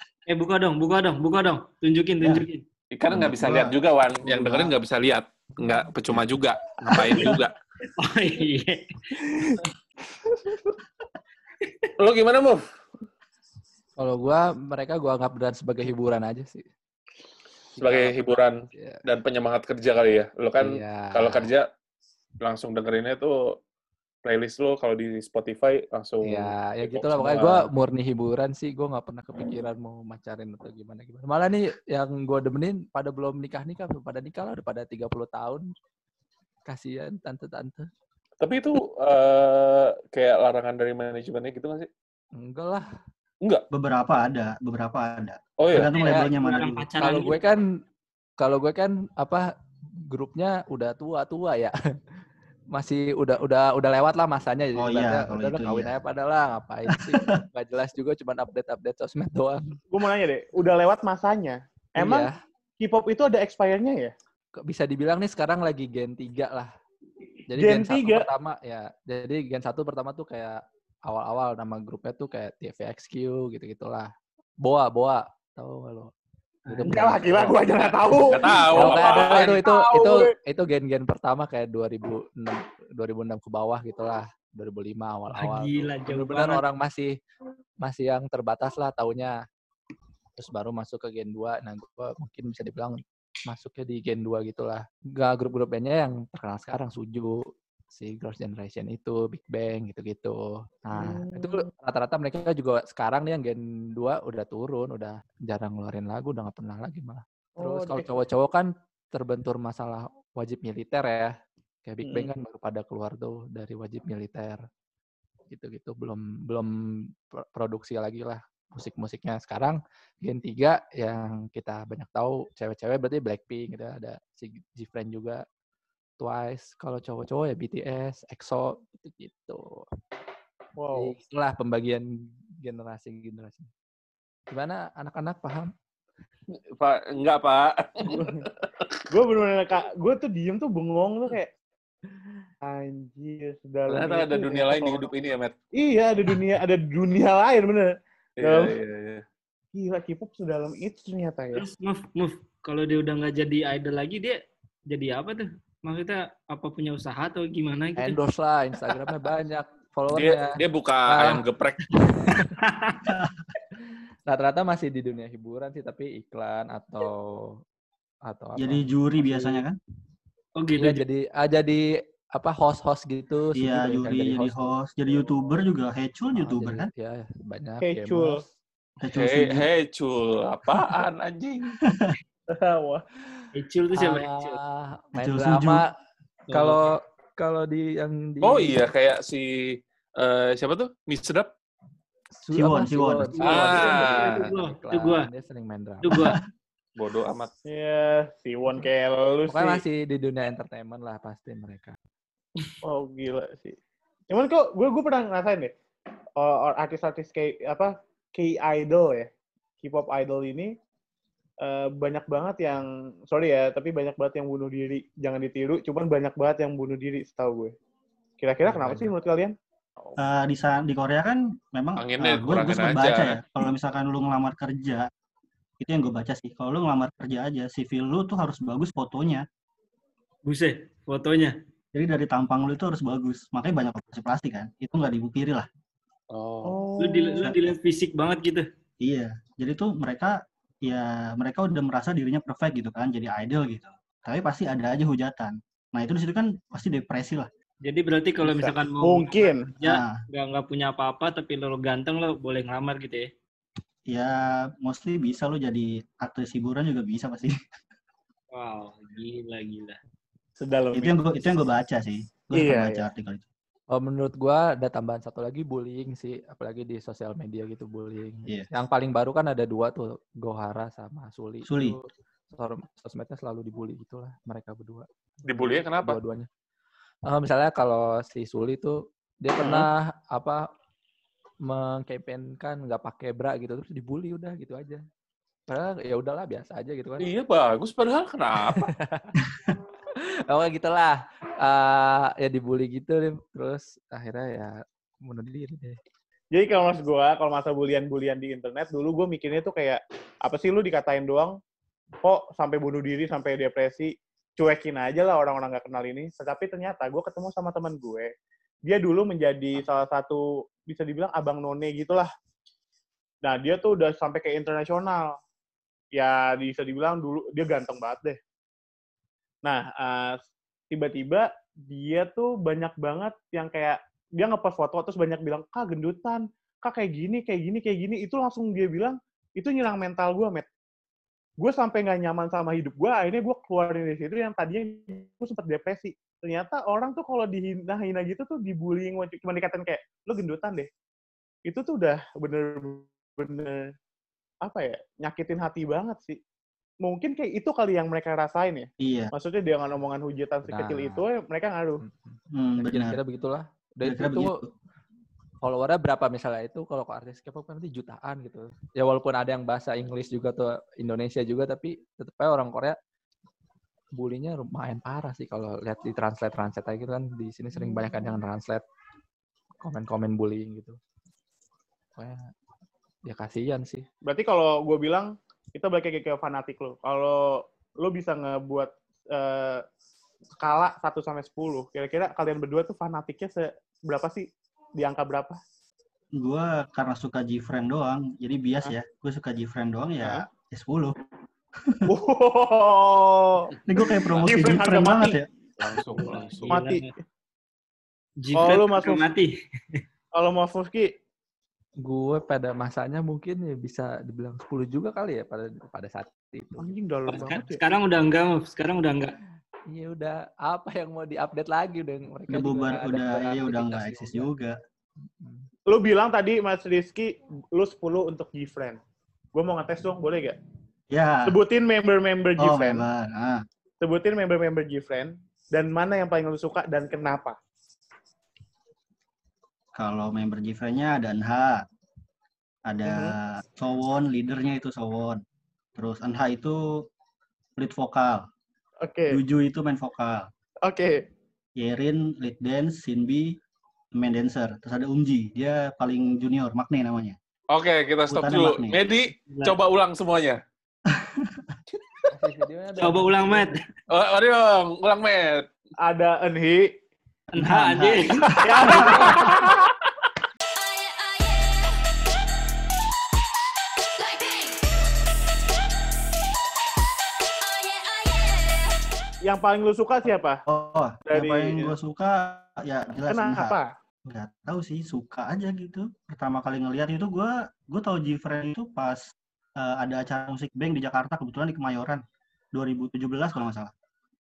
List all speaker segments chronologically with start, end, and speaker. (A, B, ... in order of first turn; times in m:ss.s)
0:00.3-0:02.6 A
0:02.2-0:02.4 B
0:02.9-0:07.5 C
0:03.1-0:04.7 B
0:07.2-0:08.9 A
0:09.2-0:09.7 D
0:11.6-0:11.9 A
0:12.0-0:12.6 C
0:14.0-0:16.7 E
0:17.8-0:18.2 E
0:17.8-0:21.7 C
0:18.7-0:19.0 E
0:20.6-0:21.5 E
0:22.4-0:23.6 C
0:24.2-0:27.7 C
0:26.2-0:35.7 E
0:36.7-0:37.9 E
0:38.4-0:41.9 C
0:42.4-0:42.9 E
0:43.7-0:46.9 B
0:45.6-0:45.9 C
0:46.0-0:46.2 E
0:46.0-0:47.4 A
0:47.0-0:47.6 E
0:48.4-0:49.5 E
0:50.1-0:51.7 E
0:52.7-0:59.8 E
0:54.8-0:56.0 B
0:56.9-0:57.4 B
0:59.9-1:02.3 D
1:02.0-1:02.3 E
1:02.8-1:04.1 D
1:04.6-1:06.7 E
1:07.5-1:14.1 E
1:07.6-1:08.2 D
1:14.6-1:16.1 E
1:16.7-1:17.6 E
1:16.7-1:20.3 D
1:18.3-1:19.6 C
1:18.7-1:27.1 E
1:25.4-1:26.6 A
1:27.8-1:29.4 E
1:30.4-1:37.4 E
1:37.9-1:51.4 E
1:40.9-1:41.7 D
1:47.6-1:48.1 D
1:51.9-1:54.6 E
1:52.0-1:52.3 D
1:55.5-1:56.7 E
1:57.3-2:05.4 E
2:06.2-2:09.8 E
2:10.8-2:11.1 D
2:10.9-2:12.1 E
2:12.6-2:13.7 E
2:14.5-2:15.7 E
2:16.7-2:19.0 C
2:18.1-2:18.5 D
2:19.1-2:21.5 D
2:22.6-2:25.1 D
2:23.9-2:25.6 C
2:25.8-2:28.7 D
2:28.4-2:29.2 C
2:29.7-2:31.6 D
2:31.5-2:34.4 A
2:34.9-2:38.2 A
2:38.0-2:42.5 E
2:40.1-2:42.0 C
2:42.6-2:43.1 A
2:43.0-2:43.4 B
2:44.3-2:47.6 E
2:48.3-2:49.6 E
2:48.6-2:49.8 B
2:50.6-2:51.0 A
2:50.8-2:54.8 E
2:53.6-2:56.9 B
2:56.4-2:58.4 E
2:57.8-2:58.4 D
2:59.0-2:59.6 B
2:59.1-3:01.8 C
3:01.8-3:02.1 B
3:02.5-3:03.1 D
3:03.5-3:04.6 A
3:03.9-3:05.9 E
3:05.1-3:05.8 B
3:06.5-3:06.8 A
3:06.5-3:08.8 E
3:08.4-3:11.5 C
3:12.4-3:16.4 E
3:12.5-3:13.3 B
3:13.4-3:15.3 A
3:13.4-3:14.4 C
3:16.0-3:16.4 A
3:17.0-3:17.5 C
3:17.7-3:19.8 D
3:19.5-3:22.0 E
3:22.8-3:23.7 D
3:24.3-3:25.7 D
3:26.4-3:29.3 D
3:29.8-3:30.7 D
3:31.6-3:37.7 D
3:38.4-3:39.6 D
3:38.6-3:39.1 E
3:40.2-3:45.1 B
3:42.0-3:43.4 C
3:45.8-3:49.4 B
3:50.4-3:51.5 A
3:51.9-3:55.7 B
3:56.3-3:56.8 C
3:56.6-3:57.5 D
3:57.0-3:58.6 A
3:59.0-4:07.5 B
4:07.9-4:13.3 A
4:09.0-4:09.6 D
4:09.8-4:10.2 B
4:14.1-4:17.6 B
4:18.5-4:20.0 A
4:20.6-4:21.1 D
4:20.9-4:23.4 B
4:22.5-4:23.0 D
4:23.9-4:36.5 E
4:31.6-4:32.0 B
4:35.4-4:36.2 C
4:37.3-4:40.6 E
4:41.6-4:45.0 E
4:45.7-4:47.3 E
4:47.2-4:48.9 C
4:48.7-4:49.4 E
4:50.2-4:56.0 E
4:56.5-5:01.6 D
5:02.2-5:08.3 D
5:08.9-5:12.3 D
5:13.4-5:15.4 D
5:16.1-5:18.4 D
5:19.6-5:20.4 D
5:20.9-5:30.7 D
5:31.6-5:40.9 D
5:41.6-5:43.8 D
5:44.6-5:46.4 D
5:47.0-5:52.0 D
5:49.0-5:49.3 B
5:50.6-5:51.2 E
5:52.0-5:54.5 E
5:52.5-5:53.2 B
5:54.0-5:54.7 B
5:55.6-6:03.0 E
6:04.2-6:08.8 E
6:09.8-6:11.0 E
6:12.2-6:12.5 E
6:13.2-6:14.0 E
6:14.2-6:19.8 D
6:20.6-6:24.5 D
6:25.0-6:25.6 D
6:26.4-6:31.1 B
6:32.1-6:35.4 D
6:33.9-6:35.5 B
6:35.8-6:36.8 C
6:36.2-6:37.1 A
6:36.7-6:37.0 D
6:38.4-6:40.0 A
6:38.6-6:39.3 D
6:40.4-6:41.1 D
6:42.0-6:47.6 E
6:46.8-6:47.8 D
6:47.3-6:49.4 A
6:49.9-6:54.5 E
6:52.5-6:54.8 B
6:55.4-6:55.6 E
6:55.9-6:59.0 D
6:59.5-7:00.6 D
7:01.1-7:01.6 B
7:01.4-7:03.0 D
7:02.6-7:03.6 B
7:04.0-7:07.6 D
7:09.9-7:11.8 B
7:12.9-7:15.4 B
7:13.1-7:13.3 D
7:16.0-7:17.0 B
7:17.8-7:18.4 B
7:19.0-7:19.4 D
7:19.3-7:20.5 B
7:20.8-7:21.2 D
7:21.8-7:23.6 B
7:24.1-7:27.4 B
7:27.7-7:30.6 C
7:28.3-7:29.0 B
7:29.5-7:29.8 A
7:31.1-7:31.8 B
7:32.3-7:33.7 E
7:33.0-7:33.8 A
7:34.1-7:35.6 C
7:36.0-7:36.9 D
7:37.5-7:39.5 A
7:37.6-7:39.5 B
7:38.6-7:39.7 D
7:38.9-7:39.9 C
7:49.4-7:50.6 D
7:50.7-7:53.7 B
7:51.3-7:51.9 D
7:53.3-7:53.9 D
7:54.2-7:59.2 B
7:59.8-8:03.9 B